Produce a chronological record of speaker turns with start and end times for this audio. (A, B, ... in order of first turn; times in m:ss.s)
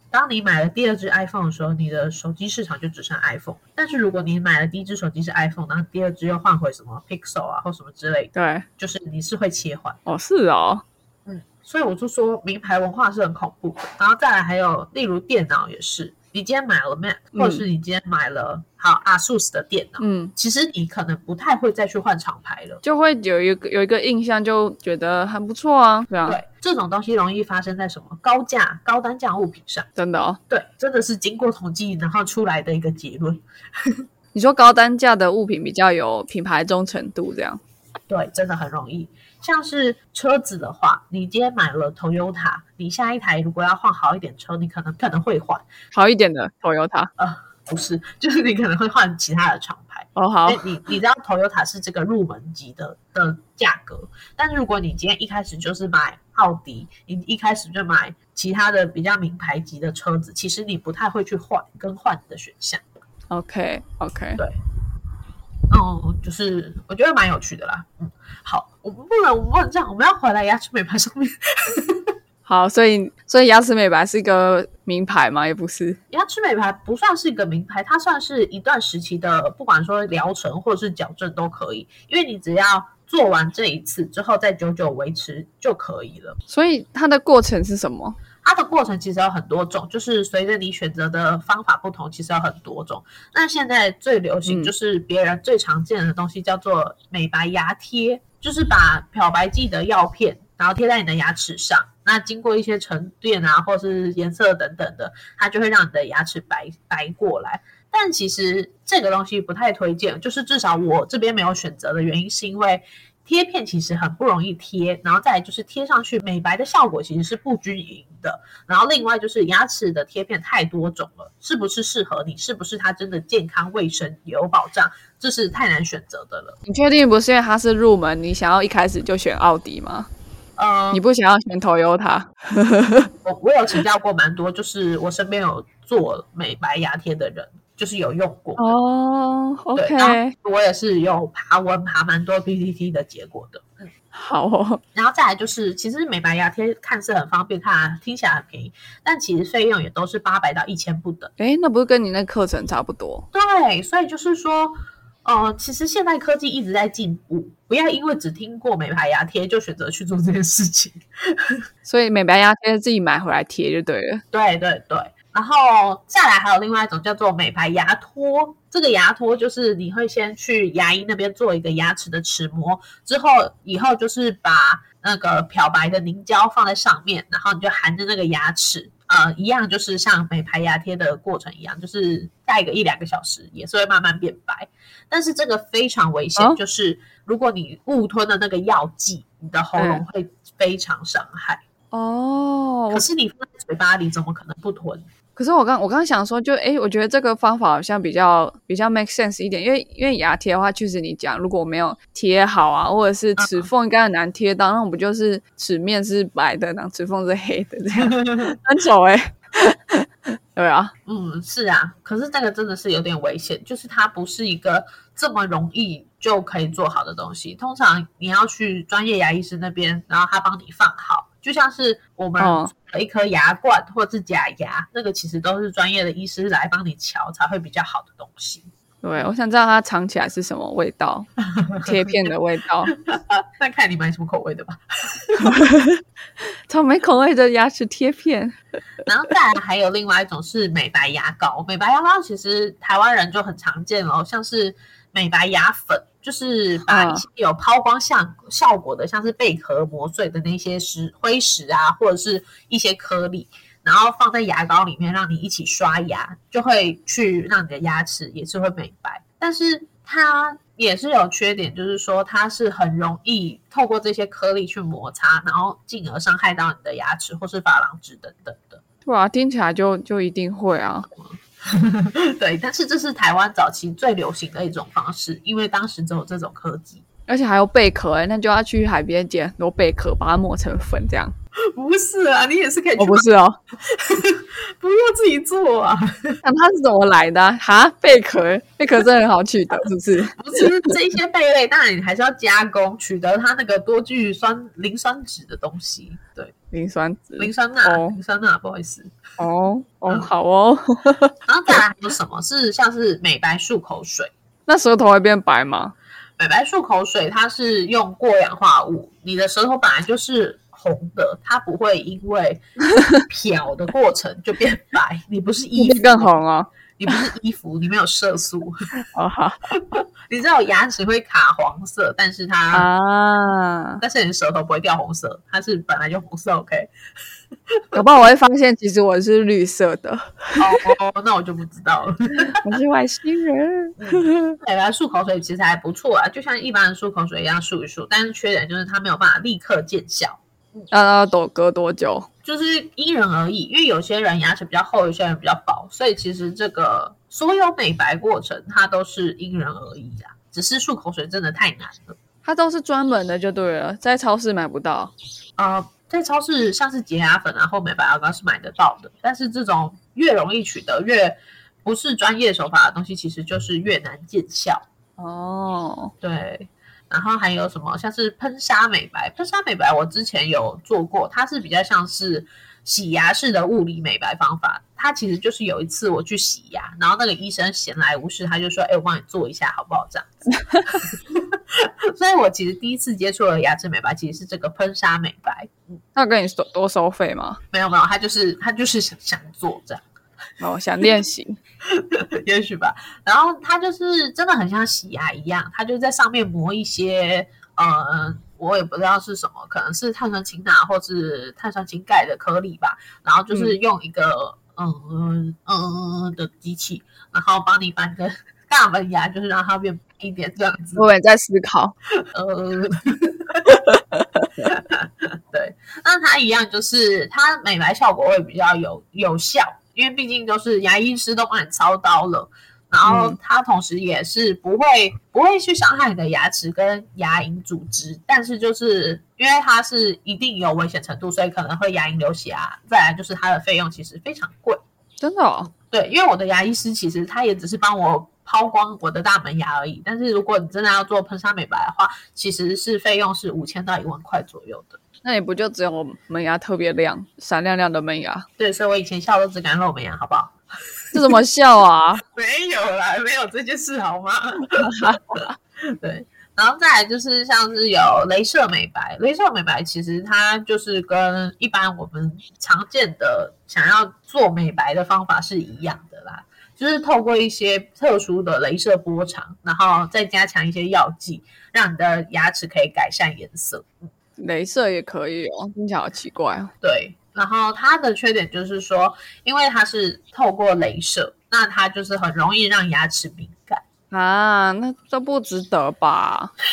0:00.1-0:10.0 A
0:08.3-0:08.7 B
0:10.1-0:10.8 B
0:11.3-0:22.8 A
0:17.4-0:17.6 B
0:20.0-0:20.3 B
0:22.8-0:26.4 B
0:26.2-0:29.9 A
0:30.0-0:30.4 B
0:30.5-0:33.4 A
0:34.3-0:37.6 B
0:38.1-0:45.6 A
0:45.9-0:47.1 B
0:47.2-1:02.8 A
0:50.2-0:50.6 B
1:03.3-1:04.4 B
1:05.7-1:12.1 A
1:12.5-1:16.0 B
1:16.1-1:26.4 A
1:26.5-1:28.2 B
1:28.4-2:06.6 A
1:34.5-1:34.7 B
2:06.7-2:10.1 B
2:10.6-2:11.0 A
2:10.9-2:13.1 B
2:13.2-2:18.8 A
2:18.6-2:20.3 B
2:19.8-2:23.9 A
2:24.1-2:24.8 B
2:25.0-2:31.3 A
2:31.4-2:33.3 B
2:33.3-2:41.0 A
2:41.8-2:44.2 B
2:44.3-3:11.6 A
3:09.8-3:10.0 B
3:11.9-3:13.1 B
3:12.9-3:15.1 A
3:15.4-3:30.9 B
3:23.4-3:23.7 A
3:28.0-3:28.6 A
3:31.1-3:48.7 A
3:42.4-3:42.7 B
3:49.0-3:51.3 B
3:51.4-3:52.3 A
3:51.8-3:52.9 B
3:52.9-3:55.6 A
3:55.4-3:56.0 B
3:56.7-3:58.6 B
3:59.1-4:28.8 A
4:06.9-4:07.2 B
4:29.0-4:31.1 B
4:31.1-4:37.0 A
4:37.3-4:41.3 B
4:41.8-4:43.3 A
4:43.0-4:43.6 B
4:43.9-4:46.4 A
4:46.4-4:50.9 B
4:50.4-4:56.5 A
4:56.7-4:58.2 B
4:57.4-4:59.2 A
4:59.4-5:01.8 B
5:01.5-5:04.3 A
5:04.7-5:05.9 B
5:06.4-5:12.6 A
5:13.2-5:16.4 A
5:15.8-5:16.7 B
5:17.0-5:18.8 A
5:19.1-5:19.6 B
5:19.8-5:22.9 A
5:22.7-5:24.0 B
5:24.0-5:26.9 A
5:27.9-5:30.9 B
5:30.6-5:32.6 A
5:32.6-5:34.6 B
5:34.0-5:40.9 A
5:40.9-5:42.3 B
5:42.4-5:52.2 A
5:52.4-5:55.1 B
5:55.6-6:04.8 A
6:05.2-6:06.1 B
6:06.2-6:20.3 A
6:20.9-6:26.0 A
6:26.2-6:27.6 B
6:27.7-6:30.0 A
6:30.6-6:31.6 B
6:31.9-6:51.1 A
6:43.5-6:43.8 B
6:51.0-6:52.0 B
6:52.3-6:53.9 A
6:53.7-6:54.7 B
6:54.6-7:14.8 A
7:03.0-7:03.4 B
7:15.2-7:15.7 B
7:15.9-7:25.0 A
7:25.2-7:28.5 B
7:28.6-7:30.6 A
7:31.1-7:32.2 B
7:32.3-7:35.1 A
7:34.8-7:35.5 B
7:35.8-7:54.1 A
7:54.4-7:56.7 B
7:56.8-8:03.8 A
8:04.1-8:06.5 B